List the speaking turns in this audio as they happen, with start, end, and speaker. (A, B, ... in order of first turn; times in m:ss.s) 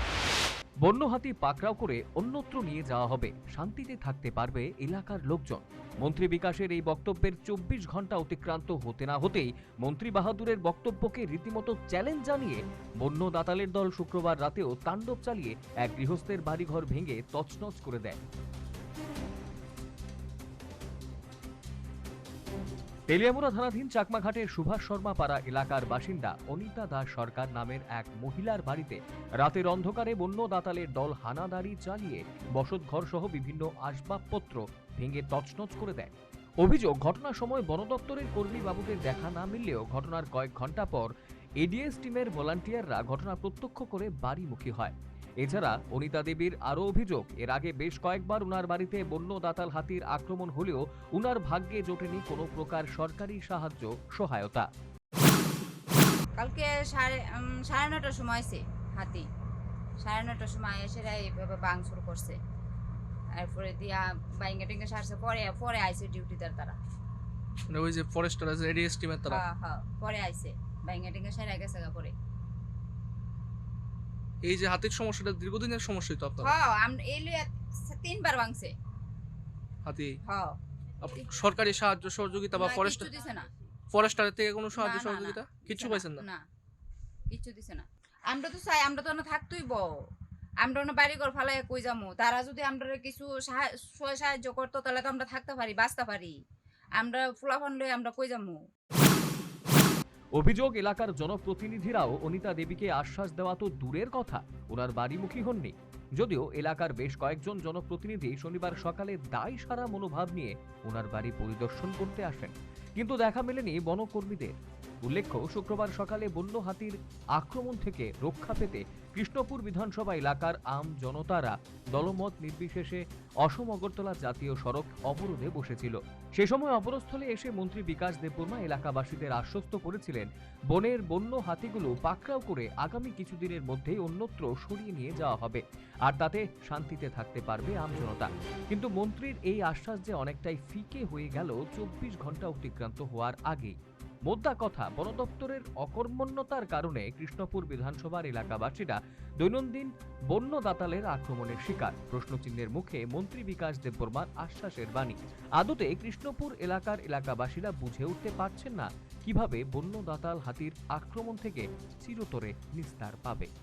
0:00.8-0:18.2 A
0:23.1-0:54.7 A
0:56.4-0:59.3 B
1:00.0-1:02.4 B
1:03.3-1:06.8 B
1:07.7-1:09.4 C
1:09.3-1:12.1 B
1:14.4-1:16.6 C
1:16.4-1:18.7 B
1:19.8-1:20.2 C
1:20.2-1:20.6 B
1:21.0-1:23.1 C
1:22.6-1:23.5 B
1:23.9-1:26.2 C
1:24.7-1:26.4 B
1:27.3-1:29.9 B
1:30.6-1:36.4 B
1:37.0-1:38.6 B
1:40.3-2:43.5 A